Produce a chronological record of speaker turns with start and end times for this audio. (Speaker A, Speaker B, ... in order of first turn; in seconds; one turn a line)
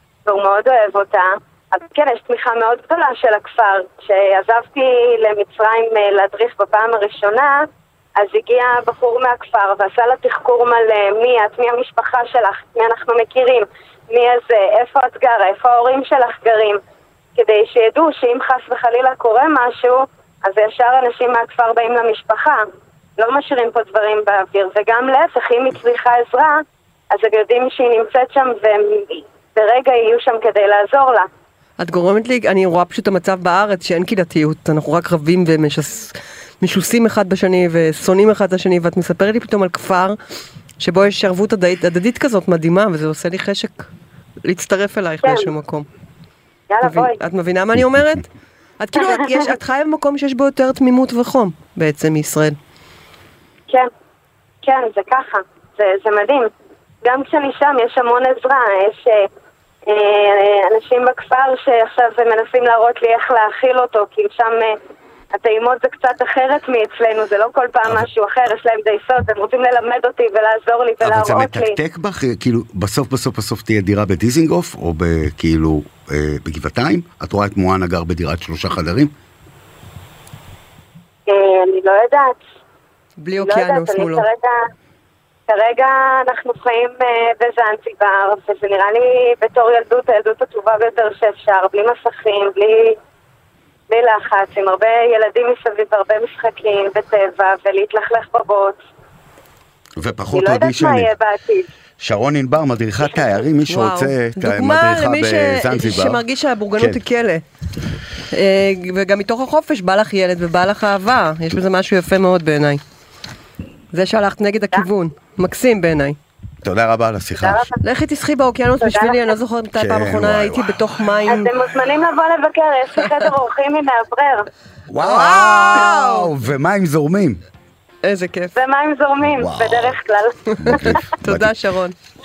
Speaker A: 0.2-7.6
Speaker A: 8.2-16.8
Speaker A: 17.4-22.6
Speaker A: 23.2-31.3
Speaker B: 31.8-40.2
Speaker B: 40.8-43.9
Speaker B: 44.4-45.9
Speaker A: 45.2-45.5
Speaker A: 46.7-47.2
Speaker B: 46.8-48.3
Speaker B: 48.8-52.5
Speaker A: 49.0-49.5
Speaker A: 54.6-56.5
Speaker A: 57.0-59.3
Speaker A: 59.9-64.7
Speaker A: 65.3-71.8
Speaker C: 71.0-79.1
Speaker A: 81.3-82.4
Speaker B: 83.2-84.2
Speaker A: 83.4-84.6
Speaker A: 85.5-93.0
Speaker A: 93.9-98.8
Speaker C: 100.0-101.1
Speaker A: 100.3-101.7
Speaker C: 102.0-106.2
Speaker A: 103.1-103.4
Speaker B: 103.7-107.4
Speaker B: 108.3-112.8
Speaker B: 113.9-116.2
Speaker C: 116.6-117.7
Speaker A: 117.4-117.8
Speaker B: 117.8-121.5
Speaker A: 118.8-119.2
Speaker C: 119.7-120.8
Speaker A: 121.3-124.5
Speaker C: 124.9-127.4
Speaker B: 125.0-126.3
Speaker B: 128.0-128.6
Speaker A: 128.5-131.0
Speaker C: 129.2-130.0
Speaker C: 130.6-131.5
Speaker B: 130.6-131.9